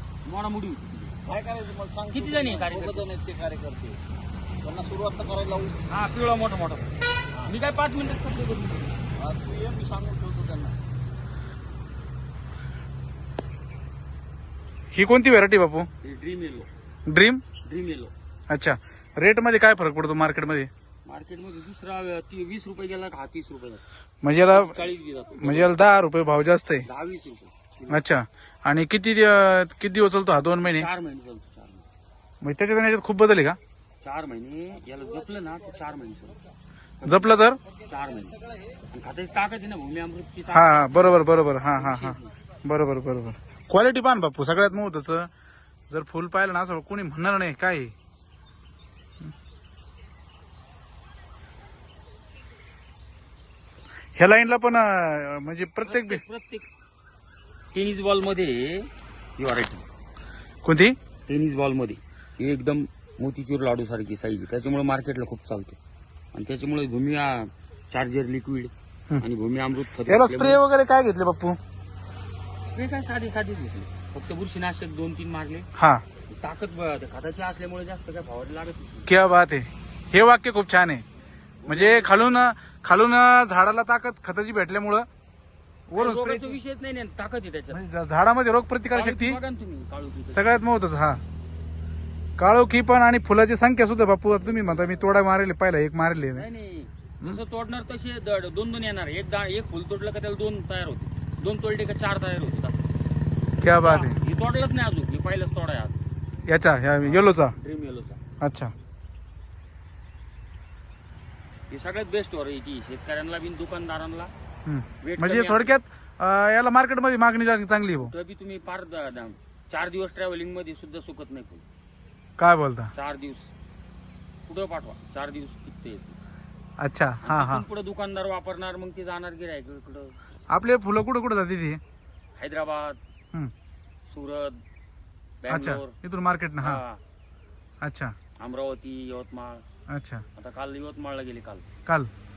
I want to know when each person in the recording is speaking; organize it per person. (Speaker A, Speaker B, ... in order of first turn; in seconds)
Speaker A: 0.2-1.2, 2.1-3.1, 5.9-6.9, 7.4-9.0, 16.0-16.7, 17.6-18.1, 21.1-23.8, 24.4-25.9, 26.8-28.0, 30.6-31.9, 34.0-36.4, 37.0-38.4, 38.9-42.3, 55.8-56.7, 57.7-59.9, 61.2-65.8, 66.3-70.6, 72.7-75.7, 76.3-79.1, 81.6-82.4, 85.9-87.8, 88.9-90.6, 96.3-102.8, 103.8-106.0, 107.0-108.2, 111.7-114.3, 115.0-115.7, 118.0-121.7, 122.9-123.5, 124.5-126.2, 127.2-130.1, 132.4-133.0, 134.1-134.6, 135.4-135.9, 136.6-137.0, 138.4-139.6, 140.3-141.7
Speaker B: 1.2-4.0, 4.6-5.8, 9.2-10.8
Speaker C: 14.9-15.9, 17.1-17.4, 18.5-20.7, 24.2-24.8, 25.4-26.9, 27.9-30.9, 32.4-33.6, 37.0-37.6, 40.5-45.3, 45.9-47.9, 54.2-56.2, 60.6-61.0, 70.1-71.6, 75.8-76.0, 79.0-81.0, 81.7-85.1, 85.9-86.6, 87.7-89.4, 90.3-91.2, 92.4-96.5, 103.6-104.2, 106.5-107.5, 108.4-108.7, 114.7-118.1, 122.4-122.9, 126.8-127.6, 130.5-131.8, 135.5-136.8, 137.8-138.1, 139.9-140.2